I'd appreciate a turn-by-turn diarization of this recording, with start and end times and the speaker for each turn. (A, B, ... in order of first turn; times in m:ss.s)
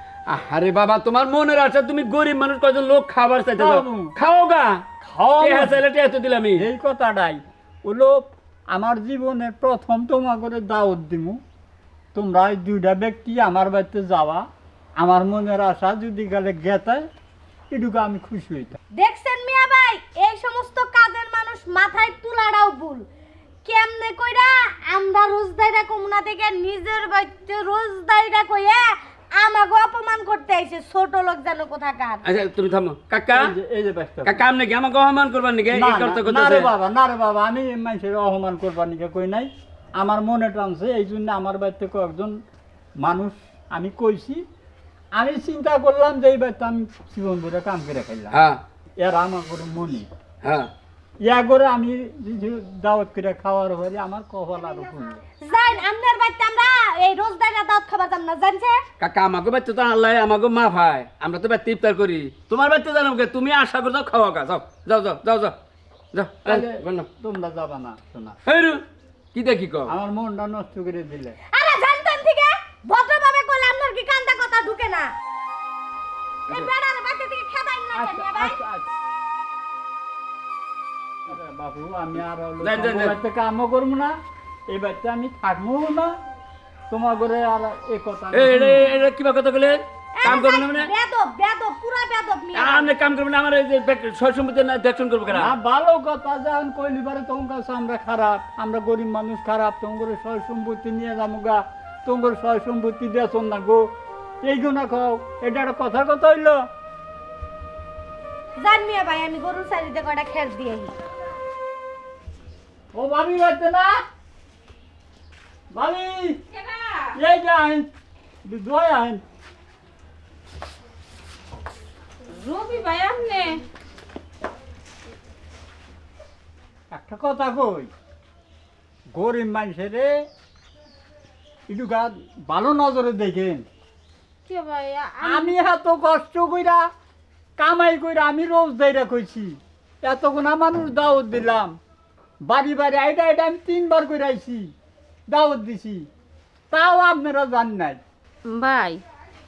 0:00.3-0:04.7 A
0:03.6-0:04.1 B
0:05.0-0:05.8 B
0:05.4-0:06.6 A
0:06.6-0:11.4 B
0:12.2-0:14.5 B
0:15.0-0:17.1 B
0:17.7-0:18.8 B
0:19.0-0:23.0 C
0:23.6-0:32.2 C
0:32.2-0:33.5 A
0:33.3-0:34.4 B
0:34.2-0:36.7 A
0:35.7-0:42.4 B
0:43.0-0:44.4 B
0:45.2-0:48.4 B
0:48.3-0:48.6 A
0:49.0-0:50.1 B
0:50.4-0:50.7 A
0:51.2-0:55.2 B
0:55.4-0:58.8 C
0:59.0-1:05.6 A
1:06.1-1:07.1 A
1:06.4-1:08.4 B
1:08.5-1:08.8 A
1:09.3-1:09.9 A
1:09.9-1:11.4 B
1:11.5-1:15.1 C
1:16.5-1:18.6 C
1:17.9-1:18.9 B
1:21.3-1:26.2 B
1:22.6-1:23.2 A
1:26.9-1:29.0 B
1:28.3-1:30.9 A
1:30.2-1:32.9 C
1:32.5-1:35.5 A
1:35.3-1:43.9 B
1:44.4-1:46.6 B
1:48.6-1:51.0 C
1:52.9-1:54.0 B
1:55.7-1:56.4 B
1:56.5-1:57.1 D
1:57.2-1:57.9 B
1:58.4-1:59.2 B
2:02.3-2:03.6 D
2:06.9-2:07.9 B
2:09.1-2:10.2 B
2:11.7-2:13.7 B
2:14.5-2:15.6 D
2:15.2-2:16.9 B
2:17.6-2:21.8 B
2:22.5-2:24.7 B
2:25.3-2:26.1 B
2:26.7-2:28.0 B
2:28.5-2:29.0 D